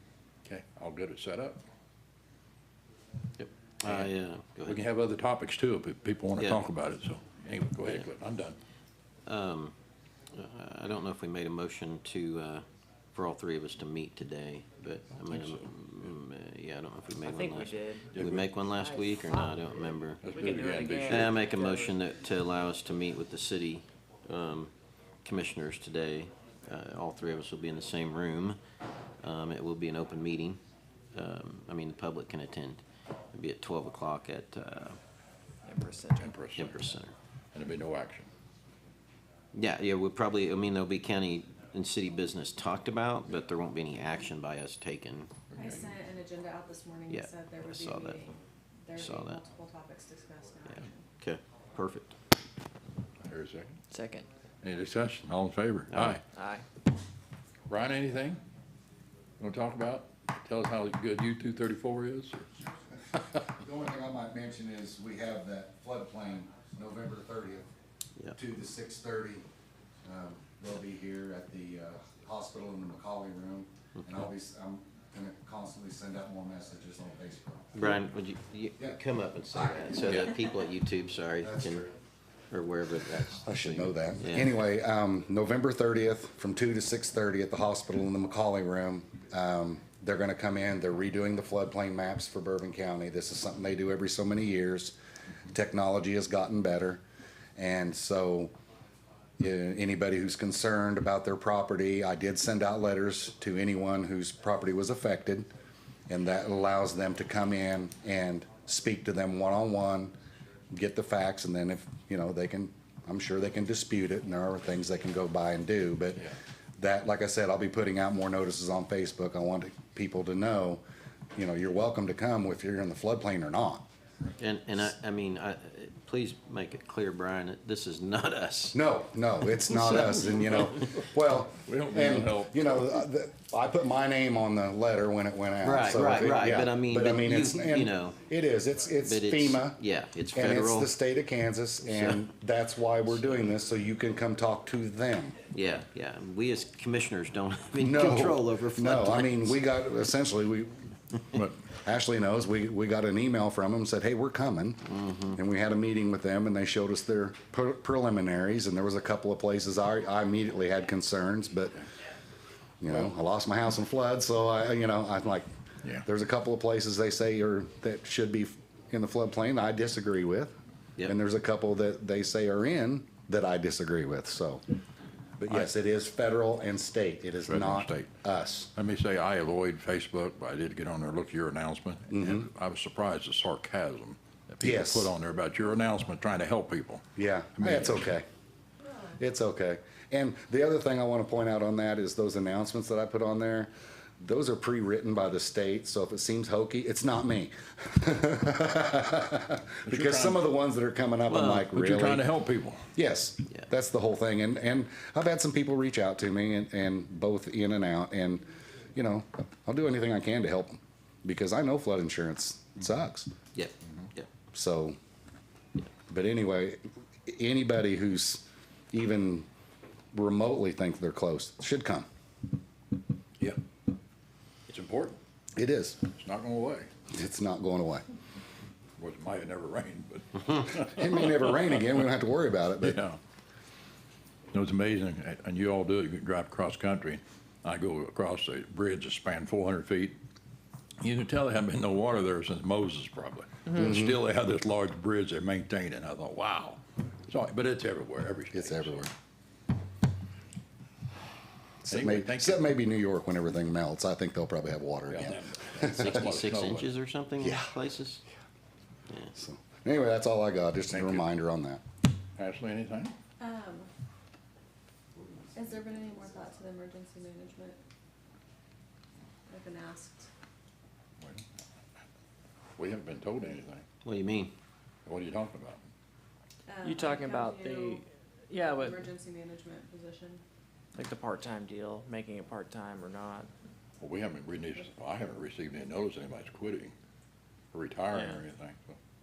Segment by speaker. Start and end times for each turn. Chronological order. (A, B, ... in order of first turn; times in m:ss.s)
0:00.4-0:01.6 A
0:03.4-0:04.8 B
0:04.7-0:08.6 A
0:09.2-0:09.8 B
0:10.3-0:20.4 B
0:15.2-0:15.7 A
0:17.2-0:19.7 C
0:18.1-0:18.5 A
0:20.2-0:21.4 A
0:20.3-0:22.0 C
0:21.1-0:24.7 B
0:25.2-0:28.6 B
0:29.2-0:30.6 B
0:31.1-0:35.0 B
0:35.7-0:36.5 C
0:36.2-0:36.9 A
0:36.6-0:37.1 B
0:37.5-0:38.3 A
0:39.5-0:45.3 B
0:45.5-0:45.9 A
0:45.6-0:51.1 D
0:47.1-0:48.4 B
0:49.0-0:49.4 B
0:50.7-0:52.2 B
0:53.2-0:53.8 A
0:53.9-0:54.3 C
0:54.6-0:56.2 A
0:55.9-0:56.2 B
0:56.3-0:56.6 C
0:57.7-0:58.4 A
0:59.4-1:02.5 A
1:03.2-1:07.7 E
1:08.4-1:09.5 E
1:10.0-1:18.0 E
1:14.0-1:14.3 B
1:17.8-1:21.9 B
1:21.4-1:21.9 E
1:22.5-1:24.5 B
1:23.4-1:34.9 E
1:35.5-1:37.0 E
1:37.6-1:38.5 E
1:39.4-1:45.5 E
1:46.1-1:50.2 E
1:50.7-1:56.3 E
1:56.8-2:00.8 E
2:01.4-2:03.9 E
2:04.4-2:08.8 B
2:08.7-2:19.8 E
2:11.6-2:12.8 A
2:15.6-2:18.2 B
2:19.0-2:20.9 B
2:20.3-2:25.4 E
2:21.8-2:22.2 B
2:25.5-2:29.6 B
2:27.8-2:30.8 E
2:31.3-2:31.6 A
2:31.8-2:41.8 E
2:34.8-2:35.4 B
2:42.8-2:45.5 E
2:46.0-2:54.6 E
2:55.4-2:58.7 E
2:57.5-2:58.1 A
2:58.7-3:07.0 A
3:02.1-3:02.5 E
3:04.6-3:05.1 E
3:07.2-3:08.2 E
3:07.6-3:08.0 A
3:09.2-3:22.3 E
3:19.8-3:20.4 A
3:21.3-3:22.8 A
3:23.0-3:33.3 E
3:33.5-3:34.3 B
3:34.5-3:35.0 E
3:36.1-3:39.5 E
3:40.1-3:42.1 E
3:44.7-3:45.2 A
3:45.6-3:46.0 E
3:46.1-3:46.9 A
3:47.1-3:48.0 E
3:49.0-3:51.4 A
3:50.8-3:53.0 E
3:52.8-3:53.2 A
3:54.5-4:00.2 A
4:01.0-4:09.1 A
4:03.7-4:04.2 E
4:08.5-4:09.1 E
4:11.9-4:12.7 A
4:11.9-4:16.1 E
4:15.1-4:16.9 A
4:15.9-4:18.2 B
4:17.4-4:17.7 E
4:19.4-4:21.8 E
4:20.9-4:21.3 A
4:22.4-4:23.2 A
4:23.4-4:23.9 D
4:25.6-4:27.8 D
4:29.5-4:30.3 D
4:31.2-4:31.4 A
4:32.8-4:33.8 A
4:34.0-4:34.5 B
4:35.1-4:35.9 A
4:36.7-4:40.4 D
4:36.8-4:39.0 C
4:41.0-4:43.5 C
4:44.0-4:46.9 A
4:47.7-4:49.0 A